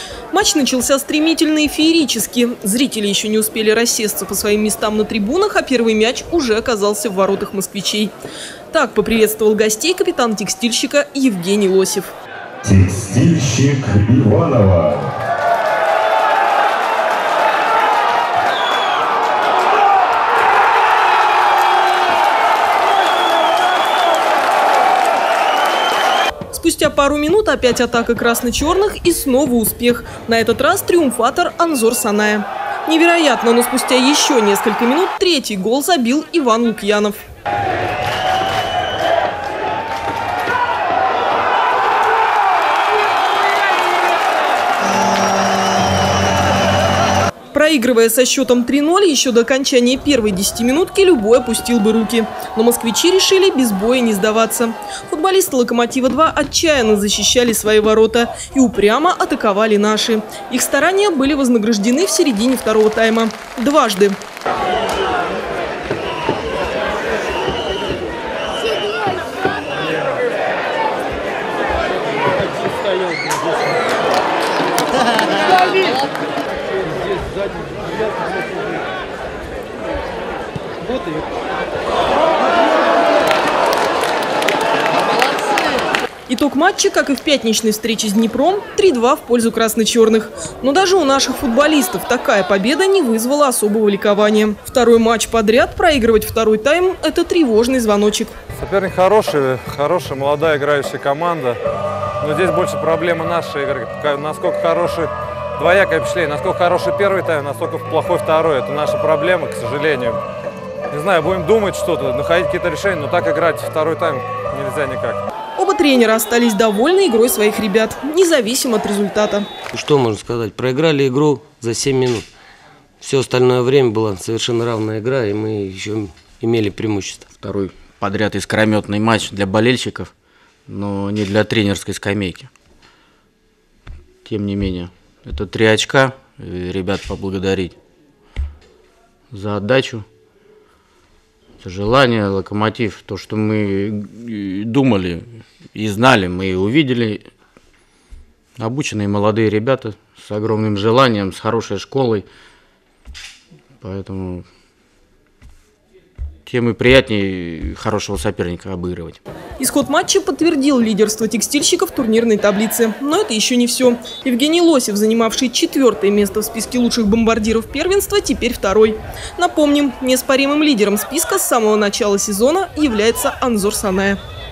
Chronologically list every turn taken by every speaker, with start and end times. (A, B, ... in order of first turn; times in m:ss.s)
0:00.3-0:08.1 A
0:08.7-0:12.1 A
0:12.6-0:15.1 B
0:26.5-0:37.2 A
0:47.5-1:04.2 A
1:26.3-1:38.3 A
1:38.6-1:41.6 C
1:42.2-1:50.2 C
1:50.9-1:55.2 C
1:55.6-1:59.5 A
1:59.7-2:02.3 D
2:03.0-2:07.3 D
2:07.3-2:10.1 E
2:10.7-2:12.5 E
2:14.2-2:17.8 E
2:19.3-2:20.0 E
2:21.6-2:27.2 E
2:28.6-2:32.3 E
2:33.8-2:34.4 E
2:36.4-2:39.2 E
2:39.6-2:54.2 A